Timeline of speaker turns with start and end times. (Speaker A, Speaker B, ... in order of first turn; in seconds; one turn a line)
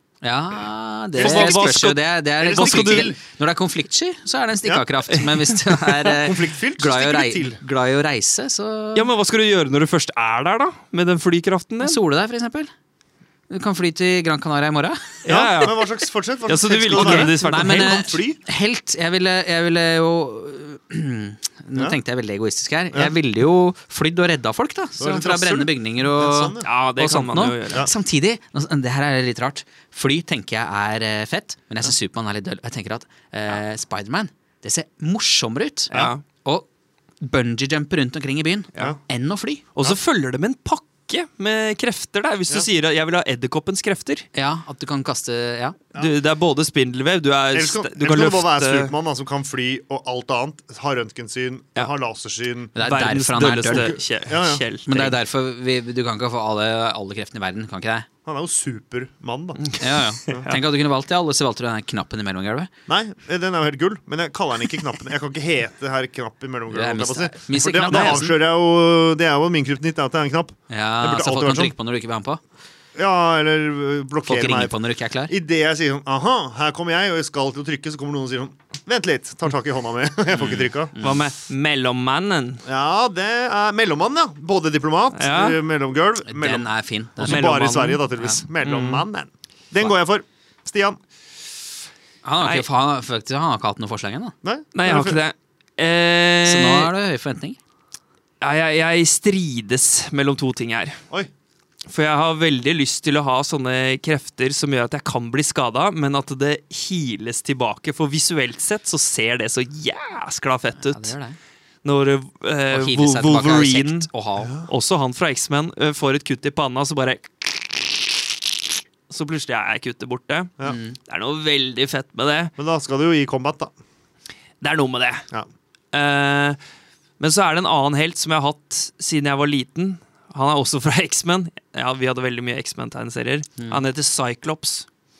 Speaker A: 0.2-9.1
Speaker B: 1.1-3.1
Speaker C: 1.2-1.8
Speaker C: 2.4-3.2
Speaker C: 4.6-4.9
Speaker B: 5.4-5.8
Speaker C: 6.0-7.6
Speaker B: 8.9-12.0
Speaker A: 11.8-12.7
Speaker A: 13.5-15.2
Speaker B: 15.2-18.1
Speaker C: 15.2-18.4
Speaker A: 16.9-36.7
Speaker C: 25.0-26.7
Speaker B: 26.6-27.9
Speaker B: 35.9-36.2
Speaker A: 37.2-39.6
Speaker B: 39.7-44.3
Speaker A: 44.3-45.8
Speaker B: 45.9-48.9
Speaker C: 47.5-52.8
Speaker A: 52.7-53.9
Speaker B: 52.8-55.2
Speaker C: 53.6-54.6
Speaker A: 54.9-58.1
Speaker C: 58.2-59.7
Speaker A: 59.8-62.7
Speaker C: 60.3-60.5
Speaker C: 62.9-71.7
Speaker A: 66.7-68.4
Speaker B: 67.9-68.2
Speaker A: 70.7-72.4
Speaker C: 72.9-74.7
Speaker A: 74.2-75.3
Speaker C: 75.3-80.9
Speaker A: 80.3-81.3
Speaker B: 81.0-82.6
Speaker C: 82.6-91.0
Speaker B: 85.1-85.6
Speaker A: 86.2-87.5
Speaker B: 87.2-89.0
Speaker A: 92.2-94.3
Speaker B: 92.4-92.7
Speaker C: 94.4-95.2
Speaker B: 94.7-96.9
Speaker A: 96.4-97.6
Speaker B: 98.4-101.0
Speaker B: 101.9-111.1
Speaker A: 110.8-111.4
Speaker B: 111.8-114.1
Speaker A: 112.7-114.5
Speaker C: 114.4-114.7
Speaker B: 114.7-118.1
Speaker B: 119.1-120.5
Speaker A: 120.6-121.0
Speaker B: 121.1-122.5
Speaker C: 122.6-123.7
Speaker B: 124.6-125.2
Speaker B: 125.9-126.6
Speaker B: 127.2-134.8